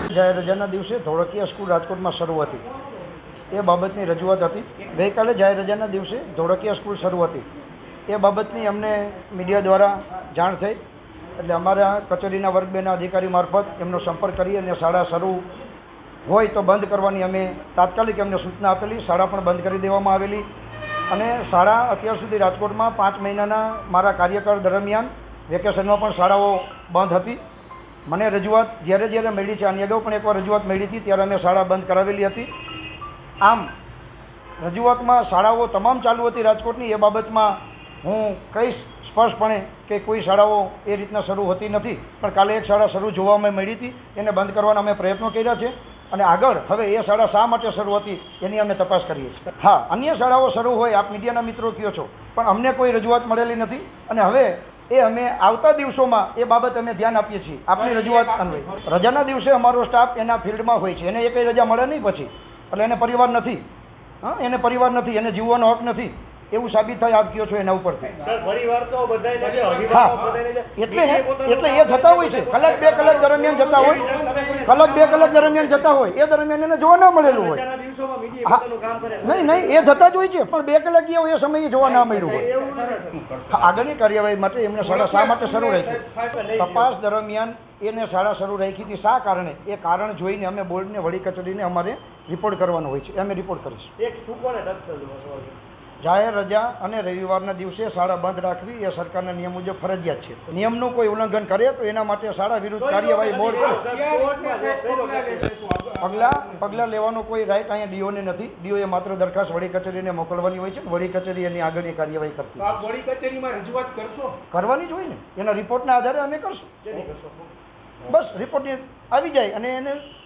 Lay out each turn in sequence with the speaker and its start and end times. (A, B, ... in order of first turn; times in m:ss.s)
0:00.1-0:02.6 A
0:03.5-0:07.4 A
0:08.1-0:10.8 A
0:11.4-0:15.4 A
0:16.3-0:20.4 A
0:21.1-0:27.4 A
0:28.1-0:32.5 A
0:33.4-0:33.7 A
0:34.6-1:03.6 A
0:57.7-0:58.8 B
1:04.2-1:08.1 A
1:08.2-1:15.8 C
1:09.4-1:10.3 B
1:09.9-1:10.2 A
1:10.8-1:17.6 A
1:13.5-1:15.5 B
1:17.2-1:20.0 C
1:19.2-1:22.5 A
1:22.0-1:23.2 C
1:22.1-1:23.8 B
1:23.5-1:26.0 A
1:24.8-1:26.4 B
1:26.3-1:26.9 C
1:26.6-1:33.9 A
1:34.0-1:35.6 C
1:36.0-1:43.8 A
1:42.8-1:45.5 C
1:43.7-1:46.8 B
1:46.0-1:52.8 A
1:52.6-1:54.4 B
1:54.5-1:56.9 A
1:56.9-1:57.5 C
1:58.1-2:00.0 A